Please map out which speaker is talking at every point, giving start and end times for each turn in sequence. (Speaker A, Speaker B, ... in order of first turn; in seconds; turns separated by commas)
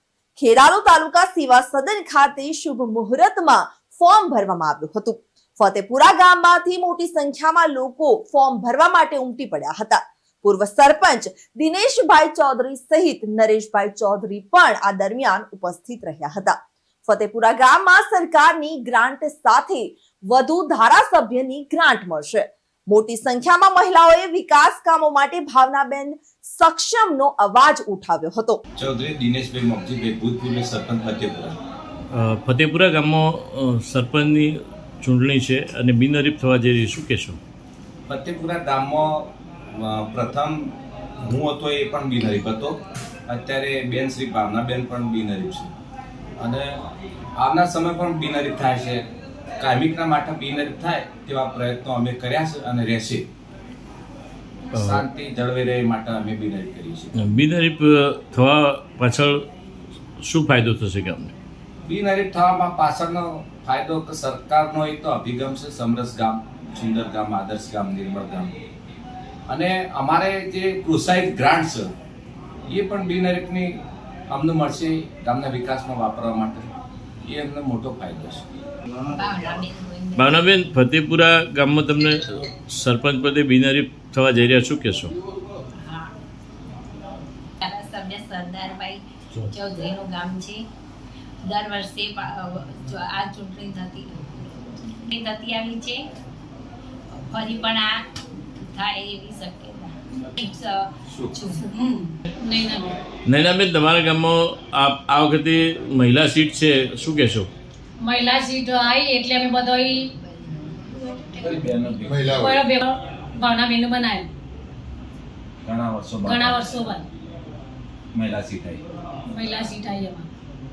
Speaker A: 0.4-28.6, Speaker B: 28.8-31.6, Speaker C: 32.2-34.4, Speaker C: 35.0-37.4, Speaker B: 38.1-45.7, Speaker B: 46.4-46.8, Speaker B: 47.4-49.0, Speaker B: 49.6-53.3, Speaker B: 54.7-57.1, Speaker C: 57.4-59.4, Speaker C: 60.3-61.3, Speaker B: 61.9-68.5, Speaker B: 69.5-71.9, Speaker B: 72.7-76.7, Speaker B: 77.3-78.6, Speaker D: 79.1-80.5, Speaker C: 80.2-85.1, Speaker D: 85.8-86.1, Speaker D: 87.6-90.7, Speaker D: 91.4-96.1, Speaker D: 97.2-101.8, Speaker B: 101.1-101.3, Speaker E: 101.8-103.0, Speaker C: 103.3-107.5, Speaker E: 108.0-110.1, Speaker D: 110.3-111.7, Speaker B: 111.4-112.6, Speaker E: 112.3-114.3, Speaker B: 115.7-116.8, Speaker E: 116.3-117.1, Speaker B: 118.2-118.8, Speaker E: 119.3-120.3